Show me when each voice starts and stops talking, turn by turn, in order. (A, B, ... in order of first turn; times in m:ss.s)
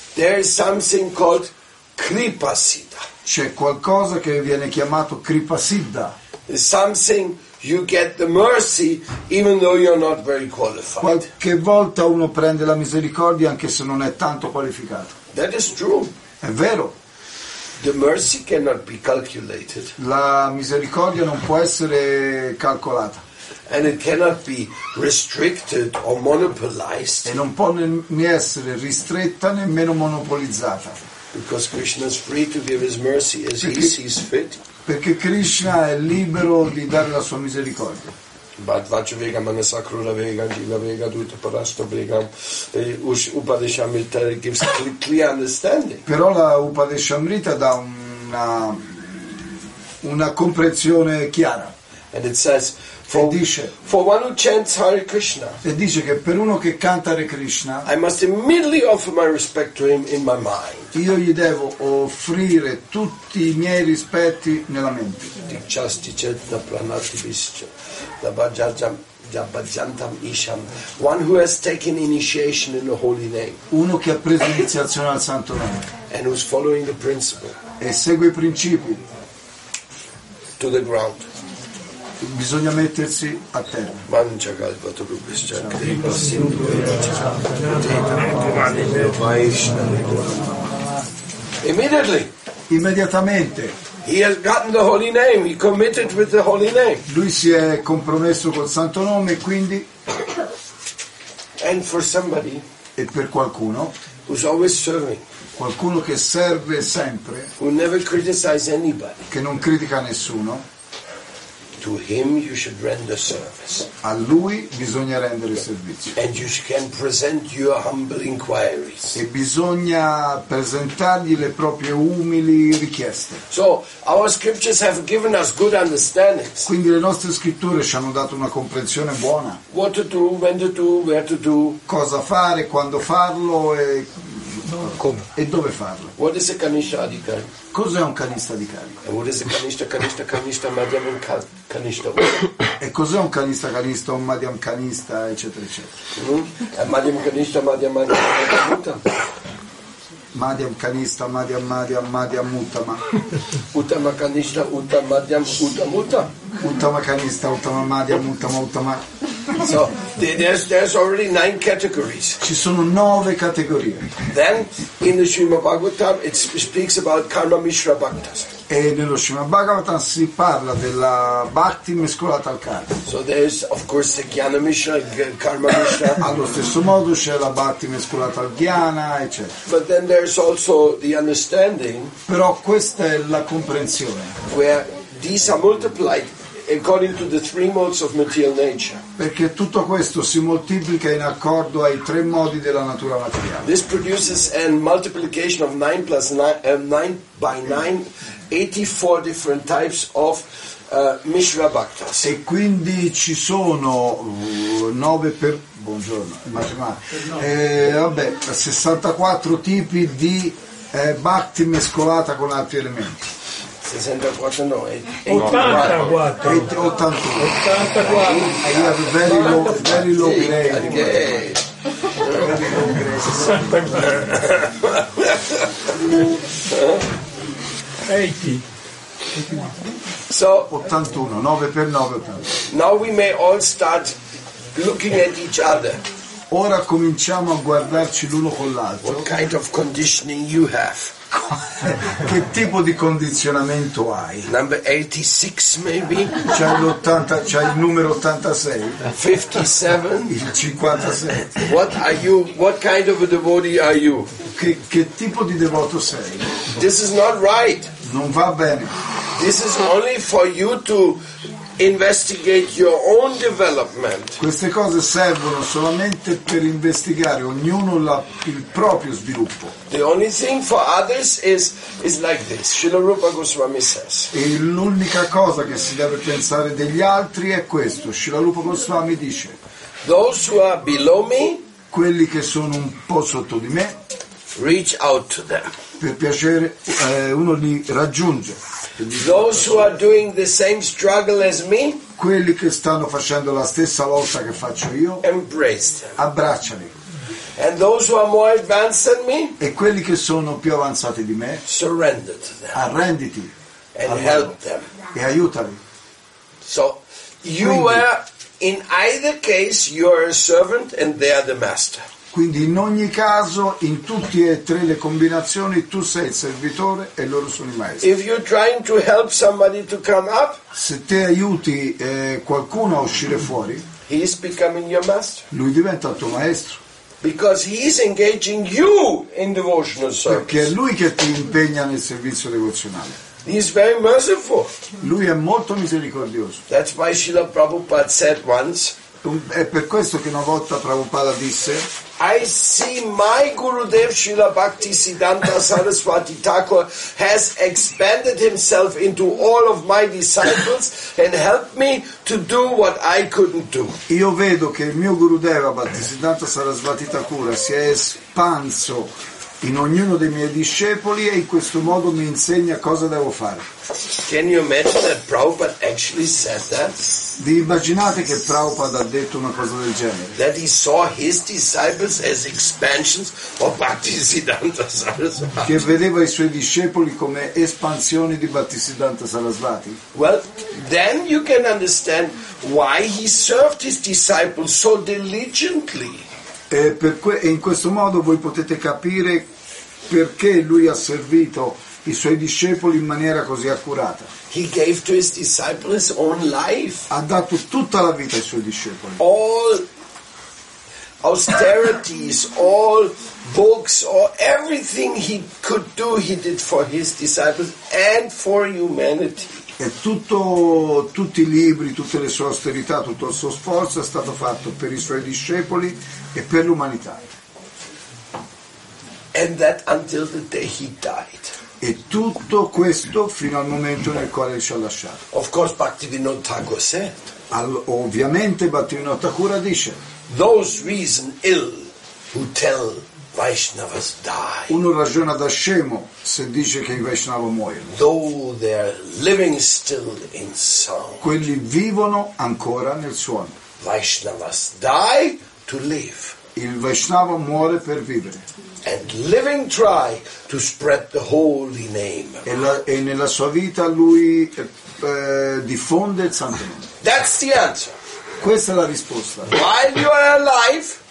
0:00.2-0:03.1 A
0:03.2-0:06.2 B
0:06.5-0:11.3 A
0:11.0-0:15.1 B
0:15.3-0:16.1 A
0:16.4-0:17.0 B
0:17.8-0:20.0 A
0:20.0-0:23.2 B
0:23.7-0:27.4 A
0:27.2-0:31.0 B
0:31.3-0:34.6 A
0:33.6-0:33.9 B
0:34.9-0:38.1 B
0:38.6-0:46.0 A
0:46.1-0:51.7 B
0:52.1-0:55.6 A
0:53.1-0:53.7 B
0:55.6-0:57.9 B
0:57.8-1:00.9 A
1:00.9-1:05.3 B
1:05.5-1:13.6 A
1:13.7-1:15.9 B
1:16.1-1:17.6 A
1:17.8-1:19.0 B
1:20.6-1:21.3 A
1:22.2-1:24.0 B
1:24.1-1:30.3 A
1:25.6-1:26.0 B
1:31.6-1:32.3 A
1:32.7-1:33.8 B
1:34.0-1:37.1 A
1:37.1-1:39.9 B
1:41.6-1:42.6 A
1:43.0-1:43.9 B
1:44.3-1:45.2 A
1:45.6-1:47.5 B
1:47.6-1:49.3 A
1:49.3-1:50.6 B
1:51.8-1:53.9 A
1:54.0-1:56.2 B
1:56.2-1:59.2 A
1:59.2-2:03.4 B
2:03.5-2:06.7 A
2:06.7-2:09.6 B
2:09.7-2:11.8 A
2:11.9-2:16.1 B
2:16.2-2:17.5 A
2:17.7-2:19.0 B
2:19.0-2:22.4 A
2:22.8-2:25.9 B
2:26.2-2:29.0 A
2:30.3-2:33.0 B
2:33.7-2:36.3 A
2:36.6-2:39.0 B
2:39.6-2:42.4 A
2:42.4-2:44.1 B
2:44.3-2:48.5 A
2:48.7-2:53.0 B
2:53.1-2:56.3 A
2:56.2-2:59.6 B
2:59.7-3:02.2 A
3:02.3-3:04.4 B
3:04.5-3:09.0 A
3:09.2-3:13.7 B
3:13.6-3:22.3 A
3:22.2-3:33.3 B
3:33.8-3:36.3 A
3:35.3-3:36.7 C
3:36.4-3:37.7 B
3:37.4-3:38.6 C
3:37.9-3:41.7 A
3:38.5-3:41.4 B
3:42.2-3:42.5 A
3:42.2-3:44.3 B
3:43.4-3:44.4 C
3:44.4-3:46.0 A
3:46.6-3:47.1 A
3:48.1-3:48.6 C
3:50.3-3:50.7 A
3:50.7-3:52.6 B
3:52.7-3:54.2 A
3:54.7-3:56.0 A
3:56.5-3:59.3 B
3:59.0-4:01.2 A
4:01.5-4:04.5 B
4:04.4-4:06.5 A
4:06.4-4:09.0 B
4:09.1-4:10.4 A
4:10.3-4:11.6 B
4:11.5-4:14.3 A
4:14.5-4:16.5 B
4:16.7-4:17.9 A
4:18.0-4:19.0 B
4:19.3-4:21.2 A
4:21.8-4:24.4 A
4:24.4-4:29.7 B
4:29.9-4:34.3 A
4:34.3-4:39.6 B
4:40.0-4:41.6 A
4:41.9-4:44.0 B
4:44.6-4:45.7 A
4:46.0-4:49.9 B
4:49.2-4:52.0 A
4:52.2-4:55.2 B
4:55.2-4:56.2 A
4:56.2-4:56.9 B
4:57.6-4:59.6 A
4:59.6-5:01.6 B
5:01.6-5:02.8 A
5:02.7-5:03.5 B
5:04.0-5:04.9 A
5:04.1-5:04.5 B
5:05.1-5:05.8 B
5:06.6-5:12.0 A
5:07.6-5:08.0 B
5:12.3-5:18.1 B
5:18.0-5:20.6 A
5:20.7-5:23.9 B
5:24.1-5:25.5 A
5:25.5-5:26.8 B
5:27.2-5:30.7 A
5:30.3-5:33.2 B
5:33.4-5:34.7 A
5:35.0-5:36.6 B
5:36.7-5:39.0 A
5:39.2-5:41.9 B
5:42.2-5:54.0 A
5:54.1-6:03.7 B
6:04.2-6:07.0 A
6:07.4-6:10.4 B
6:10.4-6:15.8 A
6:15.6-6:20.0 B
6:20.1-6:26.2 A
6:26.7-6:29.5 B
6:30.1-6:34.3 B
6:34.5-6:37.1 A
6:37.1-6:39.2 B
6:39.2-6:39.8 A
6:41.2-6:49.7 A
6:49.8-6:57.2 B
6:59.3-7:01.5 A
7:01.8-7:05.2 B
7:05.3-7:07.3 A
7:07.5-7:10.0 B
7:10.3-7:14.8 A
7:14.7-7:17.9 B
7:17.9-7:21.3 A
7:21.2-7:23.6 B
7:23.8-7:26.4 A
7:26.6-7:28.4 B
7:28.8-7:32.5 A
7:32.4-7:36.9 B
7:37.0-7:38.0 A
7:38.4-7:39.6 B
7:39.5-7:41.0 A